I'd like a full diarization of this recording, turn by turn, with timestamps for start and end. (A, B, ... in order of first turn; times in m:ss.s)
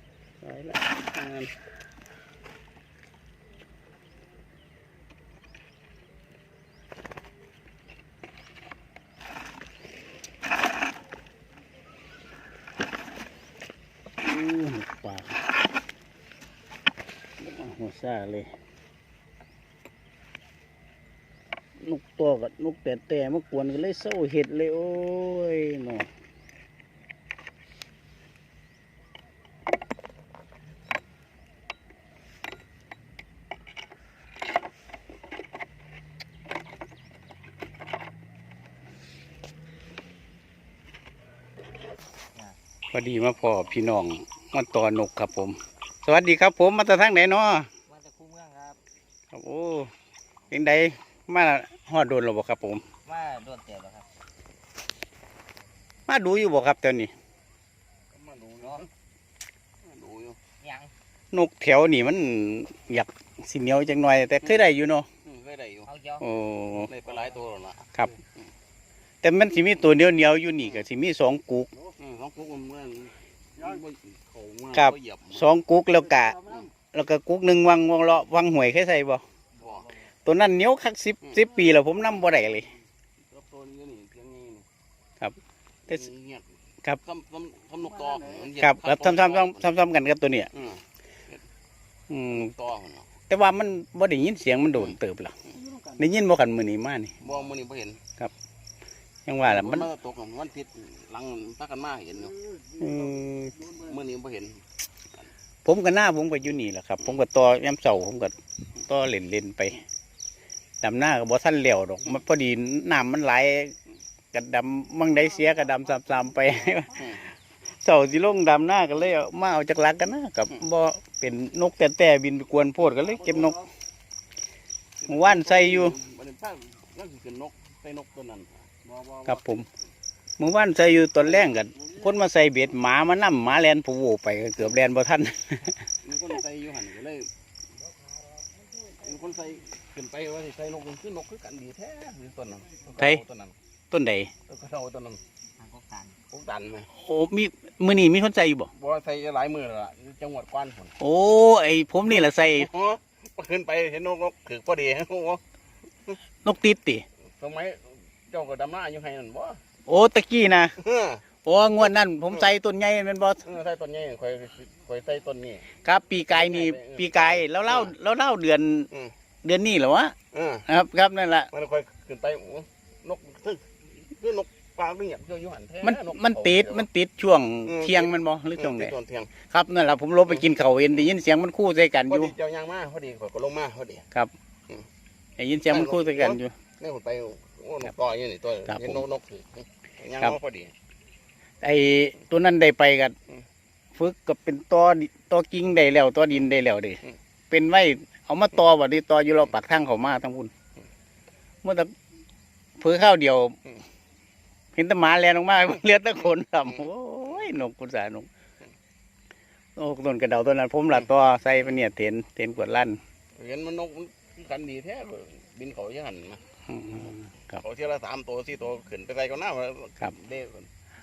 0:00.4-0:01.5 A
0:14.2-0:15.4 A
0:17.4-0:18.5 A
0:21.8-0:26.1 A
0:42.9-0:47.7 A
0:47.9-0:48.8 B
0:49.3-0:49.9 A
0:50.5-0:52.8 A
0:53.0-0:54.1 B
0:56.1-0:57.1 A
0:58.1-0:58.9 C
0:59.8-1:00.4 C
1:00.6-1:00.9 B
1:01.3-1:05.1 A
1:05.2-1:05.9 C
1:05.9-1:06.3 B
1:06.2-1:06.9 A
1:06.8-1:08.0 C
1:09.2-1:11.7 A
1:11.9-1:15.5 C
1:14.7-1:19.2 A
1:19.6-1:19.9 C
1:19.6-1:20.0 B
1:20.2-1:22.7 A
1:21.2-1:21.6 C
1:23.3-1:24.7 C
1:25.9-1:26.5 C
1:27.0-1:29.7 C
1:28.6-1:30.5 A
1:30.6-1:30.8 C
1:32.1-1:32.5 A
1:32.3-1:33.1 C
1:33.3-1:35.4 A
1:36.0-1:37.2 A
1:37.2-1:38.0 C
1:39.3-1:39.9 A
1:39.4-1:42.4 C
1:42.8-1:43.7 A
1:43.7-1:44.6 C
1:45.6-1:49.8 A
1:50.8-1:53.8 A
1:54.3-2:03.6 A
2:05.0-2:09.6 C
2:05.1-2:06.0 A
2:09.3-2:09.7 A
2:10.4-2:15.8 A
2:16.0-2:17.3 C
2:18.8-2:23.6 C
2:23.9-2:24.3 A
2:24.5-2:25.2 C
2:25.6-2:26.2 B
2:26.3-2:26.9 C
2:26.9-2:28.7 A
2:28.8-2:31.0 C
2:31.0-2:32.7 A
2:32.2-2:35.4 C
2:36.4-2:37.0 A
2:37.3-2:39.6 C
2:39.9-2:40.8 A
2:40.8-2:41.2 C
2:41.4-2:43.5 A
2:43.4-2:45.7 C
2:45.8-2:48.9 A
2:46.3-2:47.9 C
2:49.4-2:51.5 A
2:50.3-2:50.7 C
2:51.5-2:56.9 C
2:55.8-2:59.0 A
2:57.7-2:59.3 C
2:59.5-3:02.4 A
3:02.1-3:04.1 C
3:05.4-3:06.5 A
3:05.7-3:10.7 C
3:08.7-3:09.0 A
3:11.6-3:13.2 A
3:14.0-3:20.5 A
3:21.6-3:21.9 A
3:22.8-3:23.6 A
3:24.8-3:28.3 A
3:29.8-3:33.0 A
3:33.4-3:36.4 C
3:36.7-3:37.3 A
3:37.5-3:40.7 C